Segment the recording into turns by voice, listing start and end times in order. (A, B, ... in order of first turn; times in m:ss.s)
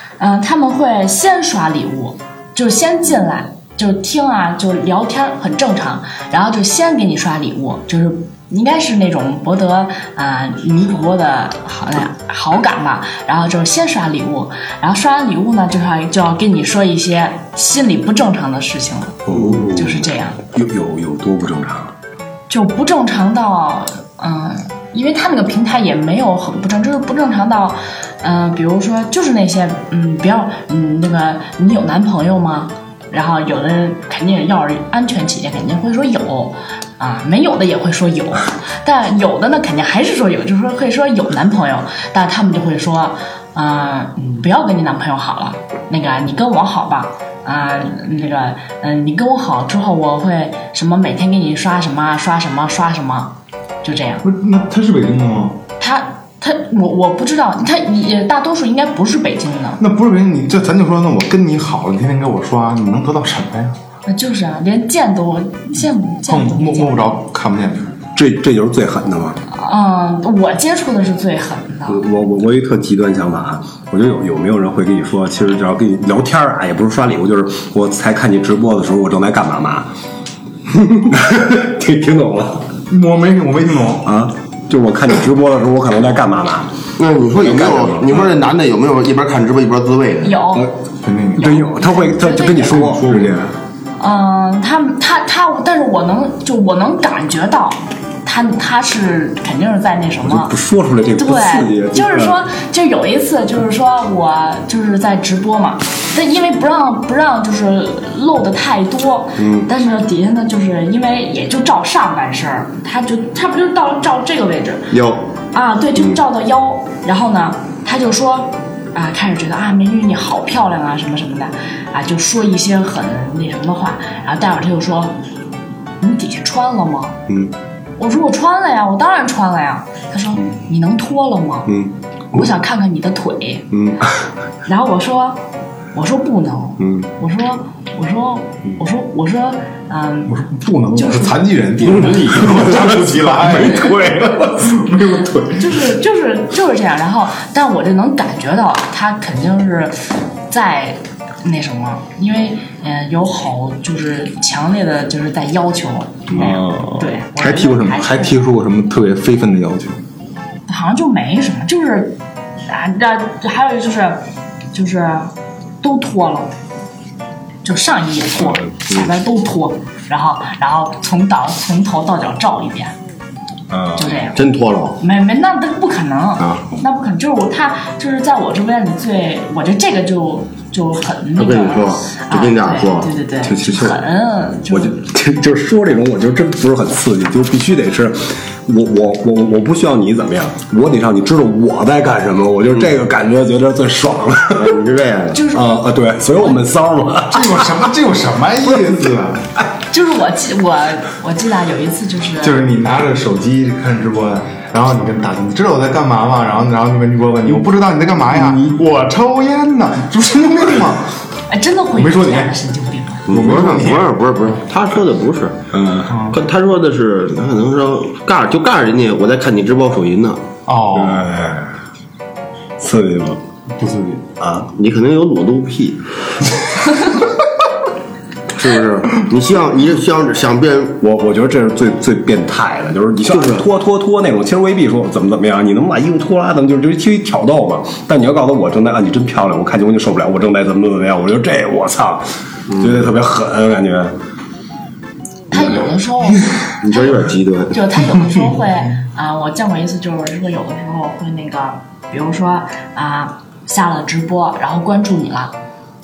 0:00.2-0:20.4 A
0:19.3-0:21.9 B
0:22.5-0:54.2 A
0:54.2-0:55.6 C
0:55.8-0:59.8 A
0:59.8-1:03.8 C
1:04.0-1:07.2 A
1:06.3-1:08.0 C
1:08.2-1:09.4 B
1:09.5-1:12.0 A
1:11.9-1:19.9 B
1:21.0-1:22.7 B
1:22.9-1:24.1 C
1:24.0-1:26.7 B
1:27.0-1:30.4 D
1:27.4-1:28.4 B
1:30.2-1:30.7 A
1:31.0-1:31.6 C
1:31.4-1:32.8 A
1:31.4-1:33.5 B
1:32.6-1:33.5 C
1:34.0-1:40.5 A
1:40.2-1:42.4 B
1:41.2-1:54.9 A
1:54.9-1:55.3 D
1:55.5-2:05.2 A
2:06.0-2:07.2 A
2:08.0-2:11.8 A
2:12.3-2:13.7 A
2:13.7-2:14.0 D
2:14.6-2:20.3 A
2:20.3-2:25.8 C
2:20.9-2:21.4 A
2:22.0-2:24.4 B
2:25.5-2:38.4 A
2:36.3-2:37.1 B
2:37.4-2:40.0 C
2:40.7-2:46.5 A
2:47.6-2:53.0 A
2:48.5-2:48.7 B
2:53.7-2:54.2 B
2:53.9-3:05.0 A
2:54.3-2:55.0 D
2:56.4-2:56.6 D
3:01.4-3:03.1 D
3:03.4-3:04.0 B
3:04.7-3:14.8 B
3:14.6-3:15.4 D
3:15.3-3:15.8 A
3:15.5-3:17.8 B
3:17.3-3:19.5 C
3:19.9-3:22.6 A
3:22.4-3:31.1 C
3:28.3-3:28.8 B
3:31.5-3:33.3 A
3:32.0-3:32.5 C
3:33.3-3:34.1 C
3:33.3-3:35.6 D
3:35.7-3:36.1 B
3:36.1-3:36.4 C
3:36.2-3:40.4 D
3:40.6-3:41.4 C
3:40.9-3:41.8 B
3:42.8-3:43.4 B
3:43.7-3:44.2 C
3:44.4-3:44.7 B
3:44.7-3:46.5 D
3:48.5-3:51.0 D
3:51.0-4:04.2 B
3:53.3-3:53.6 D
4:05.5-4:07.2 A
4:06.8-4:08.0 D
4:07.7-4:15.6 A